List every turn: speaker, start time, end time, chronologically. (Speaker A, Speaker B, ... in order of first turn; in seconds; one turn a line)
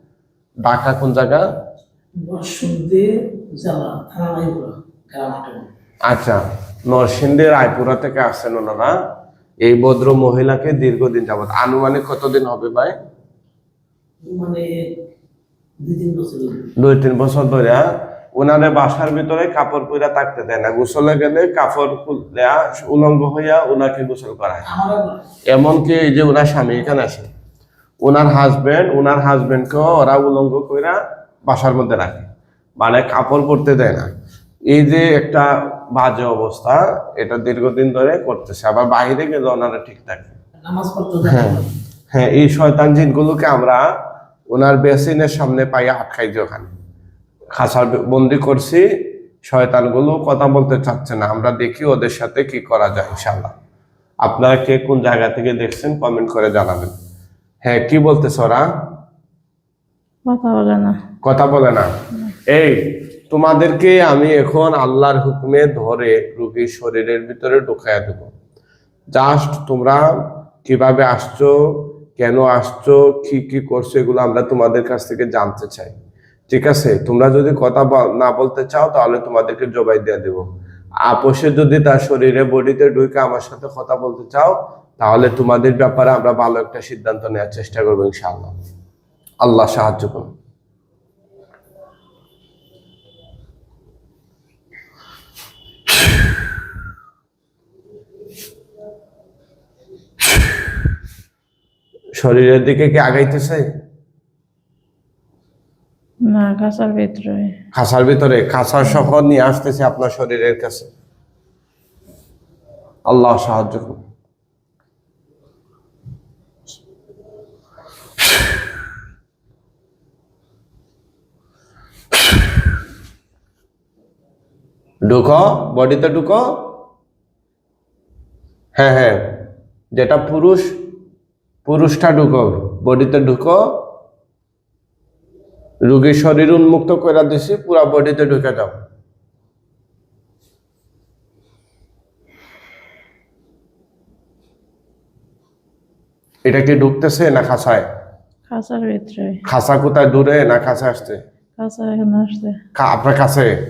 Speaker A: 0.6-1.4
Speaker B: 2.2-5.7
Speaker A: 6.1-8.9
Speaker A: 9.6-12.9
Speaker B: 14.2-14.8
Speaker B: 15.8-16.7
Speaker A: 16.8-24.7
Speaker B: 24.7-25.2
Speaker A: 25.5-27.3
Speaker A: 28.0-32.3
Speaker A: 32.8-34.1
Speaker A: 34.7-40.4
Speaker B: 40.6-41.7
Speaker A: 41.3-41.6
Speaker A: 42.1-43.9
Speaker A: 44.5-46.7
Speaker A: 47.6-48.9
Speaker A: 49.5-53.5
Speaker A: 54.2-56.9
Speaker A: 57.6-58.7
Speaker C: 60.3-61.0
Speaker A: 61.2-61.9
Speaker A: 62.5-68.3
Speaker A: 69.1-70.1
Speaker A: 70.6-75.9
Speaker A: 76.5-80.5
Speaker A: 81.1-88.5
Speaker A: 89.4-90.3
Speaker A: 102.2-103.7
Speaker C: 106.2-107.5
Speaker A: 107.7-110.9
Speaker A: 113.1-114.0
Speaker A: 125.1-126.4
Speaker A: 128.8-129.2
Speaker A: 129.9-130.7
Speaker A: 131.7-133.6
Speaker A: 135.9-138.7
Speaker A: 146.4-147.8
Speaker C: 148.5-149.4
Speaker A: 149.5-151.2
Speaker C: 151.6-152.6
Speaker A: 152.8-153.5